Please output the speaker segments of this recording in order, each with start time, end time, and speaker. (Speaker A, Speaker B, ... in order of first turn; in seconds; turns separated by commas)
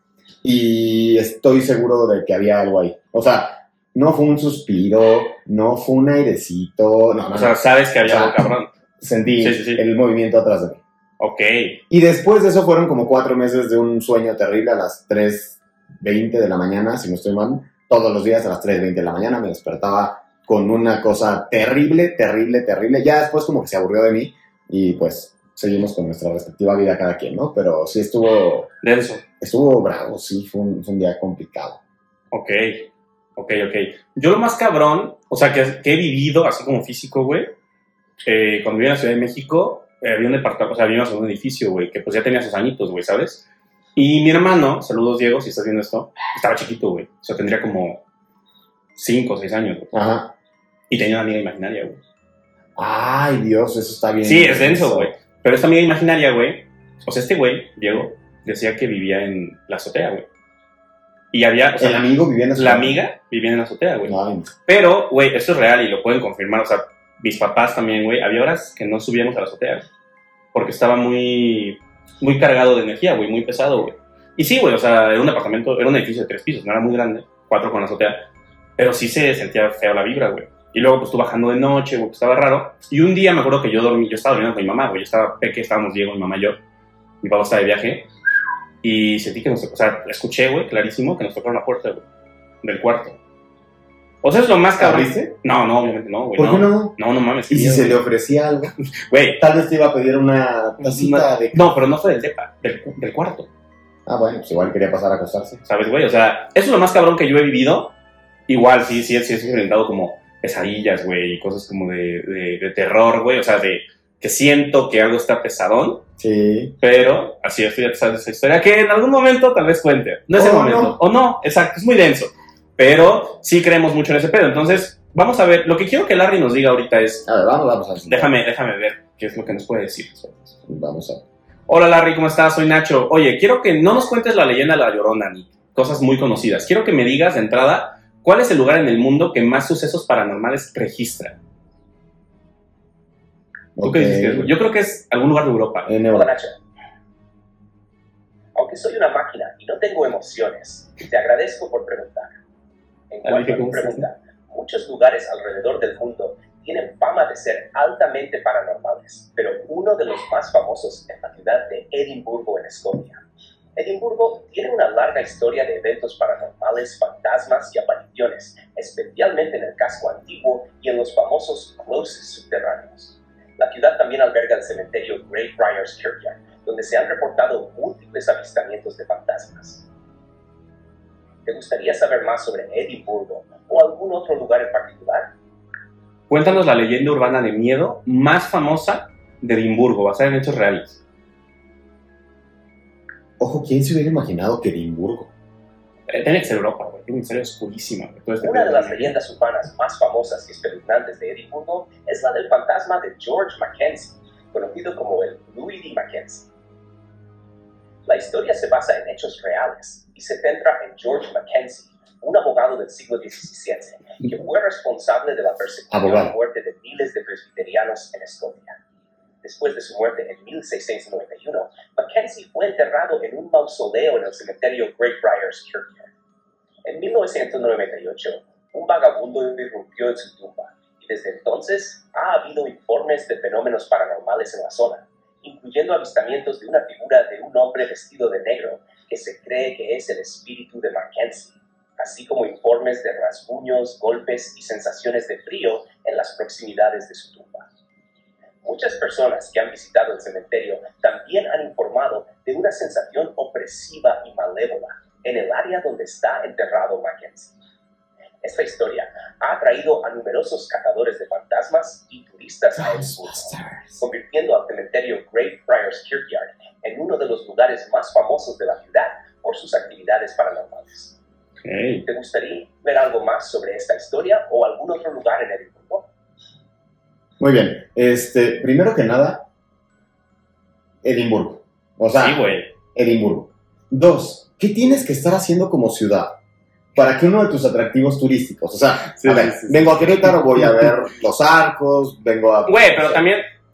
Speaker A: 0.4-10.8, Speaker B: 7.3-8.7, Speaker B: 9.4-9.8, Speaker B: 11.2-11.8, Speaker A: 11.9-28.7, Speaker B: 28.8-29.2, Speaker A: 29.4-31.8, Speaker B: 32.3-37.5, Speaker B: 38.2-43.4, Speaker B: 44.0-48.0, Speaker B: 49.0-49.9, Speaker A: 49.9-50.3, Speaker B: 50.9-52.0, Speaker A: 52.8-55.1, Speaker B: 54.2-60.3, Speaker B: 61.3-64.2, Speaker A: 61.8-63.0, Speaker A: 64.0-64.5, Speaker B: 64.7-69.8, Speaker B: 70.5-86.6, Speaker B: 87.2-88.1, Speaker B: 88.8-92.0, Speaker B: 92.6-93.2, Speaker B: 94.2-98.0, Speaker A: 94.8-95.3, Speaker A: 96.4-97.0, Speaker A: 97.5-98.7, Speaker B: 99.1-99.4, Speaker A: 99.4-101.6, Speaker B: 100.8-103.5, Speaker A: 104.0-105.6, Speaker B: 105.6-107.9, Speaker B: 108.5-116.0, Speaker A: 116.2-116.8, Speaker B: 116.8-127.3, Speaker A: 120.3-121.0, Speaker A: 127.2-128.3, Speaker B: 128.1-130.6, Speaker A: 130.7-131.2, Speaker B: 131.7-141.4, Speaker A: 143.8-144.5, Speaker B: 143.8-145.9, Speaker A: 145.9-146.3, Speaker C: 146.1-146.6, Speaker C: 148.5-152.3, Speaker C: 153.1-163.2, Speaker B: 153.2-154.1, Speaker C: 163.8-179.8, Speaker C: 181.4-185.3, Speaker B: 186.3-191.0, Speaker A: 193.4-195.3, Speaker B: 196.1-199.1, Speaker C: 198.4-206.5, Speaker C: 208.1-218.8, Speaker A: 215.9-216.3, Speaker C: 219.4-226.1, Speaker C: 226.8-247.7, Speaker C: 248.6-257.5, Speaker C: 258.4-271.2, Speaker A: 262.8-264.0, Speaker B: 271.6-272.0, Speaker C: 272.0-276.1, Speaker A: 277.4-279.4, Speaker A: 281.0-282.4, Speaker B: 282.1-282.7, Speaker A: 282.9-286.4, Speaker A: 286.9-293.2, Speaker B: 289.2-290.9, Speaker B: 292.7-293.5